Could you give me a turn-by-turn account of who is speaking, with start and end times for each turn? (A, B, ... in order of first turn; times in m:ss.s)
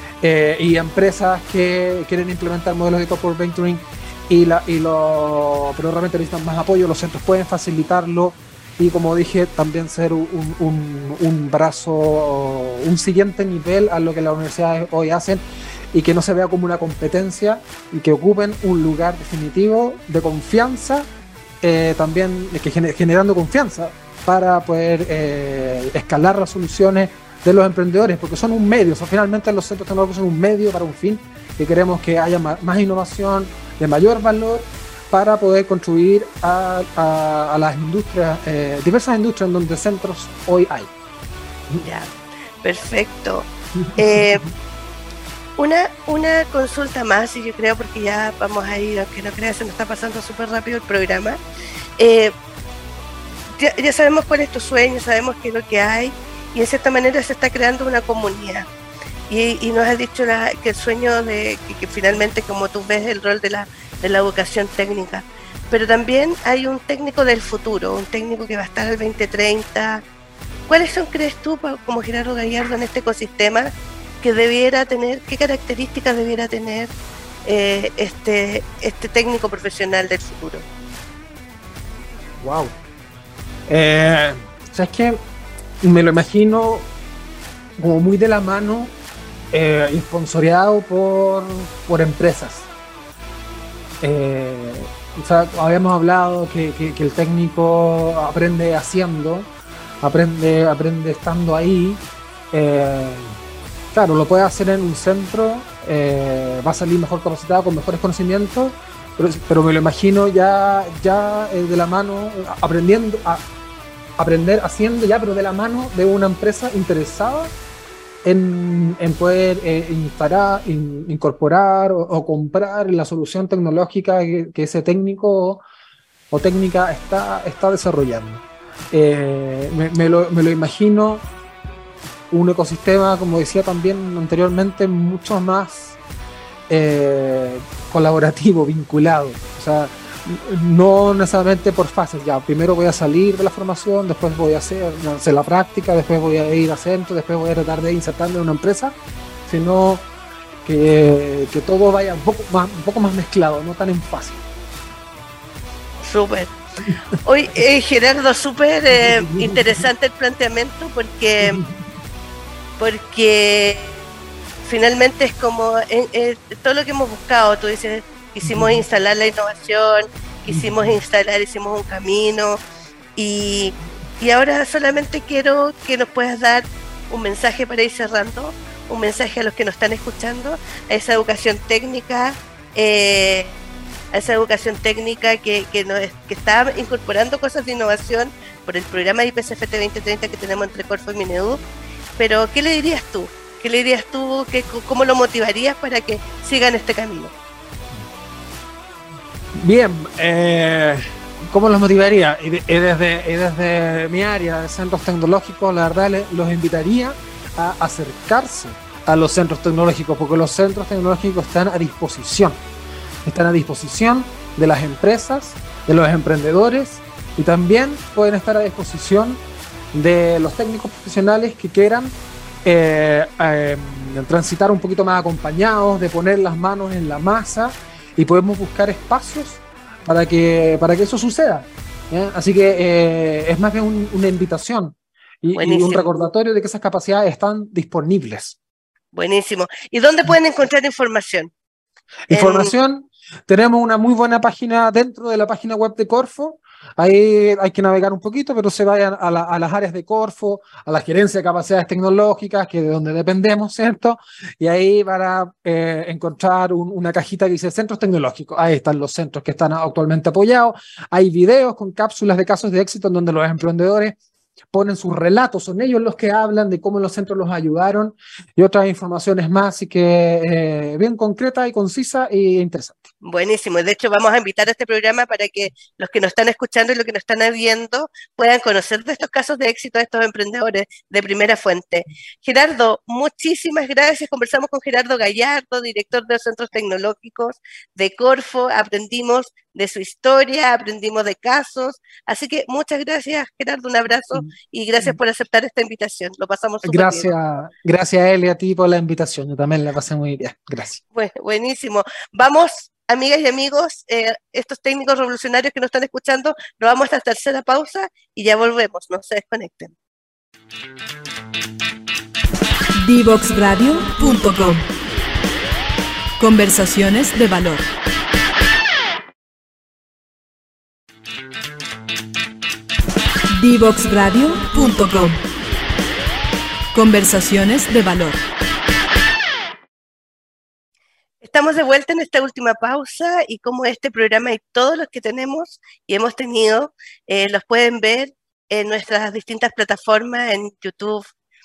0:00.2-0:15.4 A
0:15.9-0:21.1 A
0:21.6-0:40.9 A
0:41.8-0:44.5 B
0:45.6-0:51.4 B
0:52.0-0:52.4 B
0:53.5-0:58.7 B
0:59.3-1:10.0 B
1:10.7-1:13.7 B
1:14.2-1:16.9 B
1:17.4-1:20.6 B
1:22.4-1:22.8 A
1:23.7-1:25.2 A
1:25.8-1:26.9 A
1:27.8-1:29.0 A
1:29.5-1:32.7 A
1:34.0-1:39.5 A
1:40.0-1:43.4 A
1:43.9-1:53.4 A
1:54.2-1:57.5 A
1:58.2-2:05.6 A
2:06.3-2:11.2 A
2:12.3-2:16.0 A
2:16.7-2:29.0 A
2:29.5-2:30.1 A
2:30.6-2:34.4 A
2:36.0-2:36.5 B
2:37.2-2:41.6 B
2:38.9-2:39.8 A
2:41.4-2:41.8 A
2:42.8-2:44.0 B
2:44.6-2:52.6 B
2:48.4-2:48.8 A
2:50.5-2:51.0 A
2:53.2-3:03.6 B
3:04.1-3:11.6 B
3:12.2-3:17.3 B
3:19.5-3:32.6 A
3:33.3-3:39.4 A
3:39.9-3:58.6 A
3:55.6-3:56.1 B
3:59.1-4:01.5 B
4:02.3-4:24.2 A
4:02.3-4:02.7 B
4:24.7-4:33.1 A
4:33.2-4:57.3 B
4:54.3-4:55.2 A
4:56.8-5:01.0 A
5:01.1-5:10.0 B
5:13.0-5:14.8 C
5:16.4-5:17.9 C
5:23.6-5:25.4 C
5:26.9-5:28.4 C
5:31.4-5:41.3 B